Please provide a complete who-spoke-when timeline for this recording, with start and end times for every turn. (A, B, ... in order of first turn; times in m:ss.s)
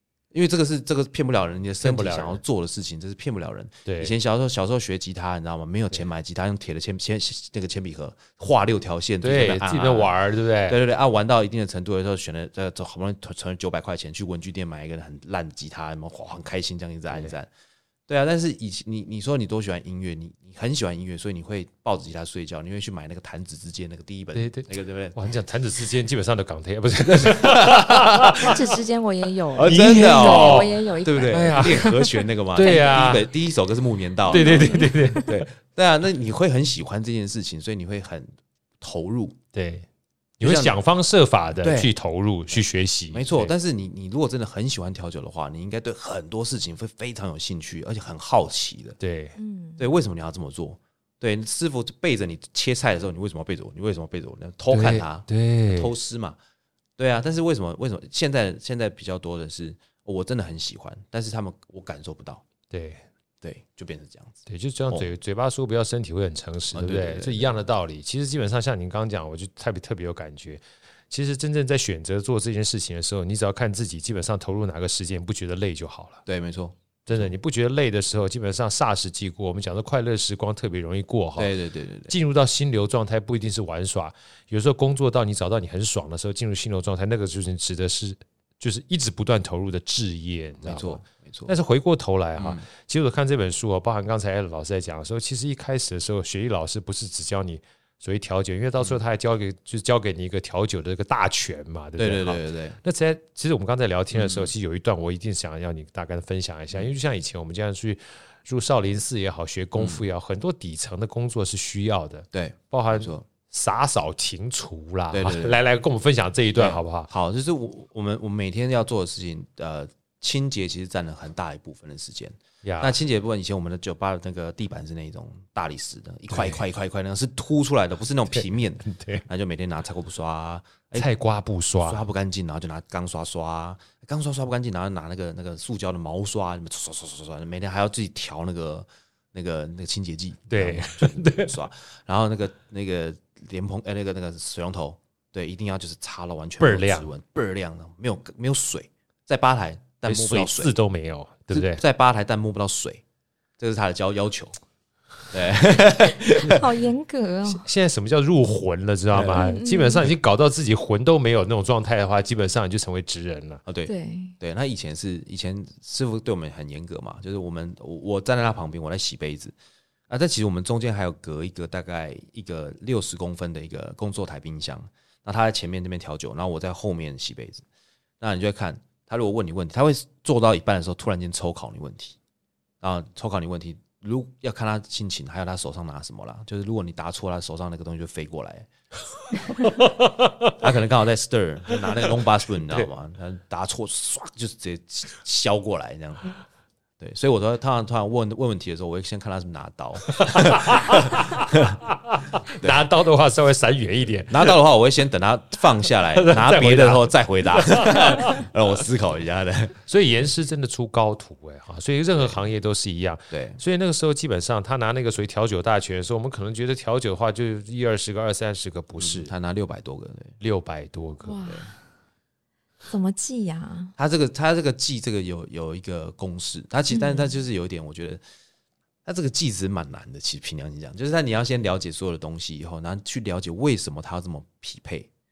0:00.3-0:10.2 A
0:01.8-0:02.4 B
0:03.8-0:04.1 B
0:09.2-0:10.8 B
0:10.7-0:17.5 A
0:18.1-0:25.2 A
0:24.3-0:28.6 B
0:27.1-0:28.5 A
0:28.4-0:33.2 C
0:29.5-0:39.4 A
0:29.6-0:32.0 B
0:32.5-0:33.3 B
0:34.3-0:35.4 C
0:34.3-0:35.4 B
0:39.5-0:39.9 B
0:40.4-0:43.5 B
0:40.4-0:40.8 A
0:41.6-0:41.9 A
0:43.1-0:49.0 A
0:49.0-0:49.4 B
0:49.4-0:49.9 C
0:49.8-0:56.4 A
0:54.7-0:55.9 B
0:57.0-1:02.4 A
1:02.7-1:03.0 B
1:03.4-1:05.1 A
1:04.5-1:16.2 B
1:06.7-1:07.5 A
1:16.3-1:17.3 A
1:17.1-1:21.5 B
1:21.4-1:22.1 A
1:22.1-1:57.1 B
1:30.6-1:31.5 A
1:32.4-1:32.7 A
1:42.0-1:42.8 A
1:44.1-1:44.5 A
1:49.8-1:50.0 A
1:52.3-1:53.3 A
1:55.1-1:55.6 A
1:56.6-2:11.1 A
2:02.6-2:03.0 B
2:06.3-2:06.6 B
2:08.4-2:09.2 B
2:11.0-2:12.1 B
2:11.8-2:30.8 A
2:20.5-2:21.5 B
2:26.6-2:27.1 B
2:30.1-2:31.8 B
2:31.5-2:33.0 A
2:33.6-2:34.6 A
2:35.3-2:36.7 A
2:36.2-2:37.7 C
2:37.5-2:43.6 B
2:39.1-2:39.5 A
2:39.3-2:40.1 C
2:43.7-2:49.6 A
2:43.9-2:44.4 C
2:50.1-2:57.6 A
2:58.2-3:02.2 A
3:02.8-3:08.7 A
3:09.6-3:10.6 B
3:10.6-3:16.3 A
3:17.0-3:21.8 A
3:20.1-3:24.6 B
3:22.6-3:22.8 A
3:24.3-3:29.8 A
3:26.1-3:28.4 B
3:29.9-3:39.3 B
3:33.3-3:33.6 A
3:39.0-3:40.4 A
3:40.4-3:41.5 B
3:41.2-3:41.8 C
3:42.9-3:44.0 C
3:44.0-3:48.2 A
3:46.9-3:47.4 C
3:49.0-3:55.1 A